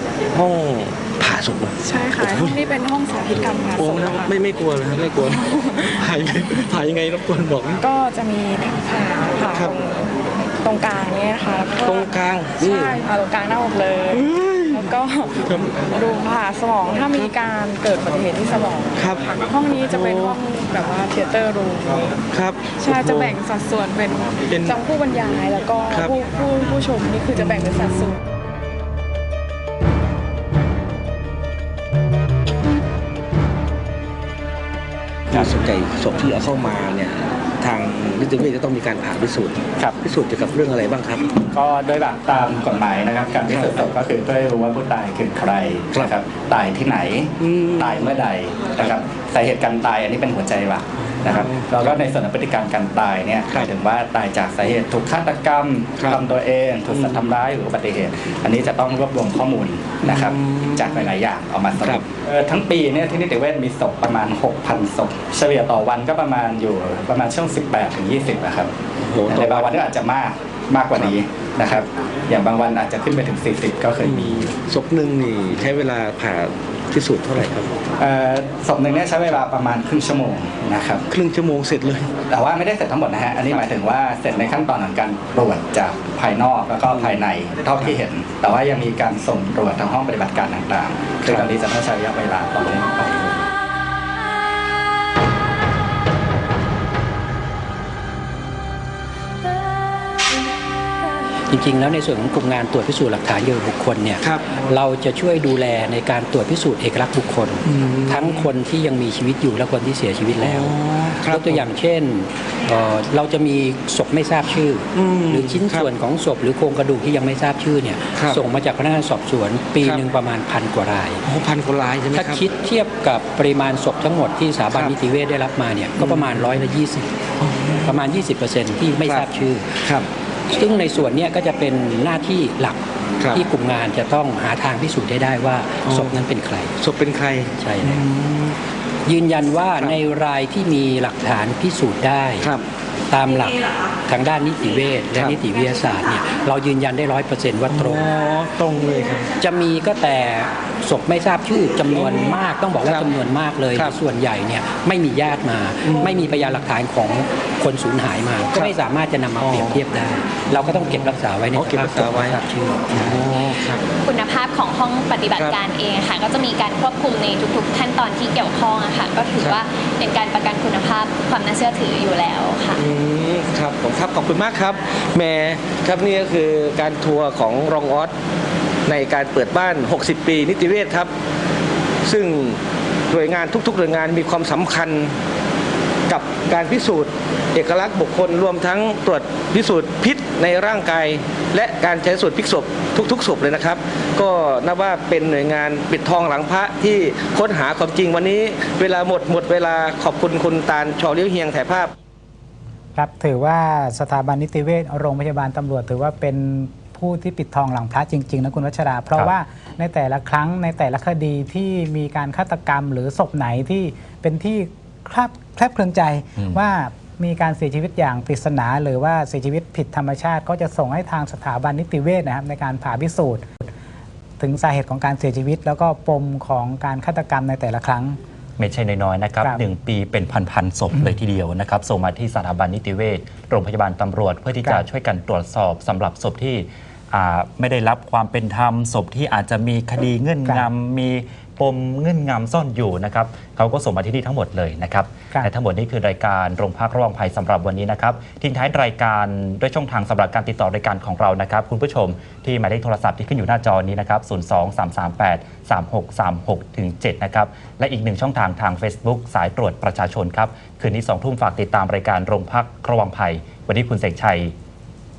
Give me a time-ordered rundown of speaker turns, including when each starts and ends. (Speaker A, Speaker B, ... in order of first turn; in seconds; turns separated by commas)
Speaker A: 0.3-1.8, Speaker B: 1.8-4.4, Speaker A: 3.8-5.4, Speaker B: 5.3-6.0, Speaker A: 6.0-7.8, Speaker B: 7.8-9.8, Speaker B: 10.6-28.2, Speaker A: 11.9-12.8, Speaker A: 14.3-14.8, Speaker A: 22.4-23.2, Speaker A: 35.3-41.3, Speaker C: 41.5-68.7, Speaker A: 43.5-43.8, Speaker A: 47.4-48.2, Speaker A: 60.1-60.8, Speaker A: 69.0-69.7, Speaker C: 69.3-74.5, Speaker A: 74.0-77.8, Speaker C: 78.0-81.0, Speaker A: 81.1-82.2, Speaker C: 82.3-93.4, Speaker D: 101.5-121.2, Speaker A: 104.2-104.7, Speaker A: 107.7-108.5, Speaker A: 110.4-111.6, Speaker A: 115.0-115.9, Speaker A: 118.2-118.4, Speaker A: 121.3-122.4, Speaker D: 122.1-127.1, Speaker A: 126.0-126.5, Speaker A: 127.4-128.0, Speaker D: 127.8-129.9, Speaker A: 129.1-129.3, Speaker A: 129.8-130.1, Speaker D: 130.5-136.7, Speaker A: 135.8-136.2, Speaker A: 136.8-138.6, Speaker D: 137.6-138.1, Speaker D: 139.1-142.5, Speaker D: 143.1-148.1, Speaker A: 147.7-149.3, Speaker D: 149.4-163.3, Speaker A: 151.9-153.1, Speaker A: 155.9-156.6, Speaker A: 159.4-159.8, Speaker A: 160.7-163.8, Speaker E: 164.0-172.8, Speaker A: 172.8-178.1, Speaker A: 178.9-181.1, Speaker A: 182.1-185.2, Speaker A: 186.1-201.9, Speaker F: 203.0-223.5, Speaker F: 224.4-228.2, Speaker G: 228.8-229.2, Speaker C: 229.2-231.6, Speaker G: 230.2-230.8, Speaker G: 231.6-234.3, Speaker C: 233.1-233.5, Speaker C: 234.1-235.0, Speaker G: 234.9-236.5, Speaker G: 237.2-241.1, Speaker C: 240.3-241.2, Speaker G: 241.6-245.0, Speaker C: 243.2-243.6, Speaker C: 245.0-245.7, Speaker G: 245.5-264.5, Speaker C: 252.1-252.5, Speaker C: 260.5-260.8